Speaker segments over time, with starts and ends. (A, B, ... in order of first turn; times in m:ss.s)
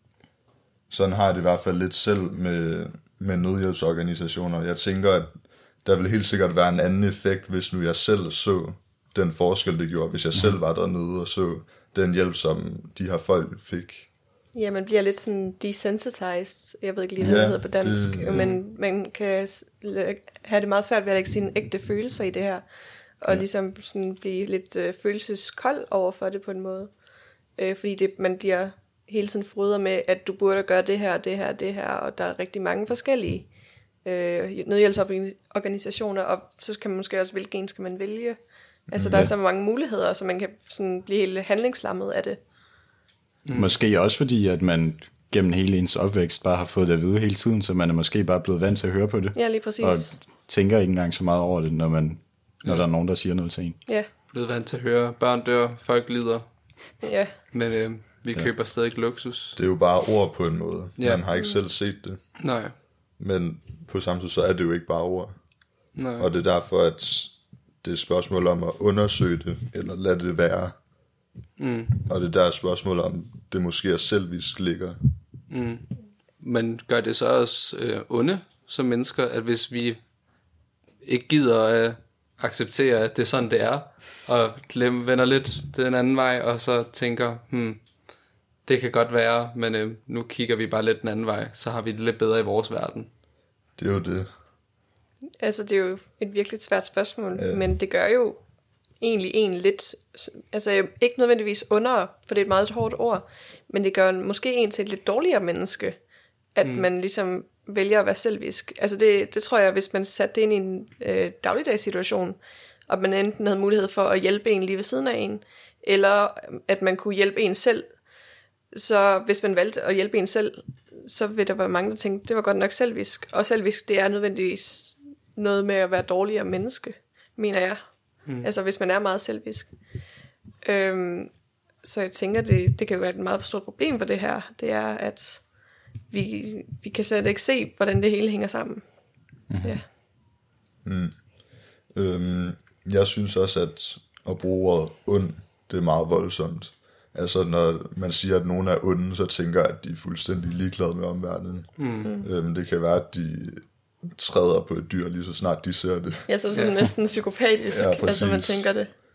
0:00.9-0:14.1 A
0:14.5-0:22.6 B
0:17.2-0:18.5 A
0:18.3-0:18.6 C
0:23.2-0:26.9 B
0:27.6-0:33.5 B
0:34.0-0:38.4 B
0:38.9-0:39.3 A
0:38.9-0:42.4 B
0:43.4-0:43.8 C
0:43.5-0:53.8 D
0:49.3-0:50.1 B
0:54.3-0:59.6 C
0:57.0-0:57.3 B
0:59.6-1:02.4 A
1:02.4-1:02.7 C
1:03.2-1:05.4 A
1:05.9-1:06.3 C
1:06.2-1:10.8 A
1:11.6-1:12.0 C
1:12.0-1:15.0 A
1:15.5-1:20.0 C
1:21.0-1:27.8 C
1:28.6-1:33.1 C
1:33.8-1:34.3 A
1:35.4-1:38.4 B
1:37.4-1:37.6 A
1:39.0-1:46.0 B
1:46.5-1:57.9 B
1:58.7-2:09.7 B
2:10.6-2:15.5 B
2:16.0-2:18.9 B
2:19.5-2:19.8 D
2:20.8-2:36.3 A
2:31.8-2:32.1 C
2:36.3-2:38.9 B
2:37.7-2:38.7 A